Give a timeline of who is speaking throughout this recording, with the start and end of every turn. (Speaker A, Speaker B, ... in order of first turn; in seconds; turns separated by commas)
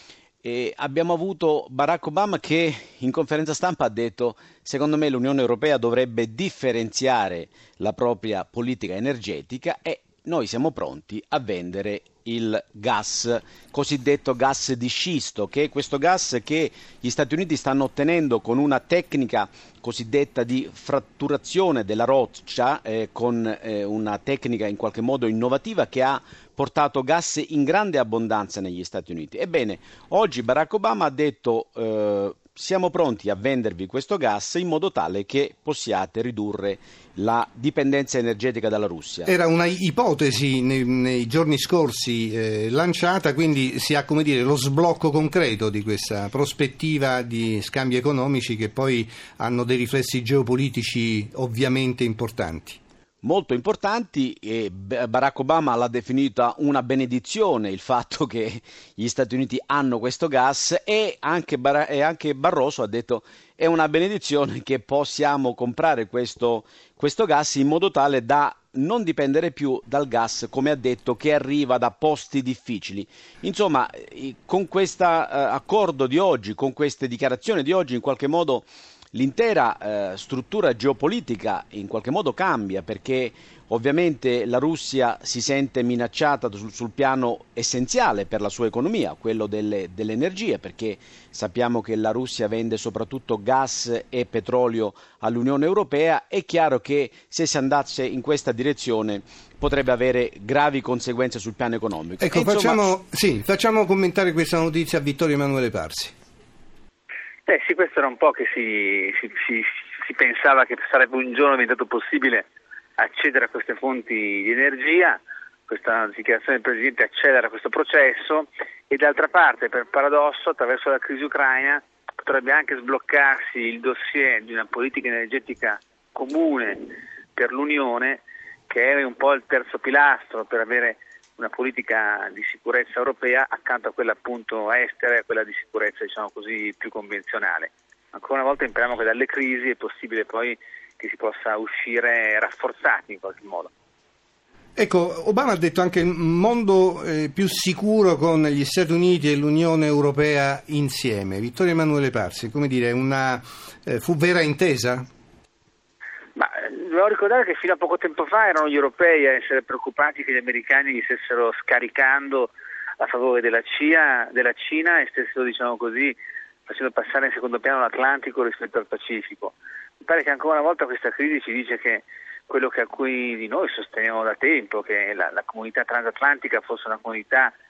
Speaker A: 0.4-39.3, Speaker B: 39.2-52.8, Speaker A: 53.2-103.0, Speaker B: 102.2-106.1, Speaker C: 107.5-143.7, Speaker B: 144.8-155.0, Speaker C: 156.3-177.5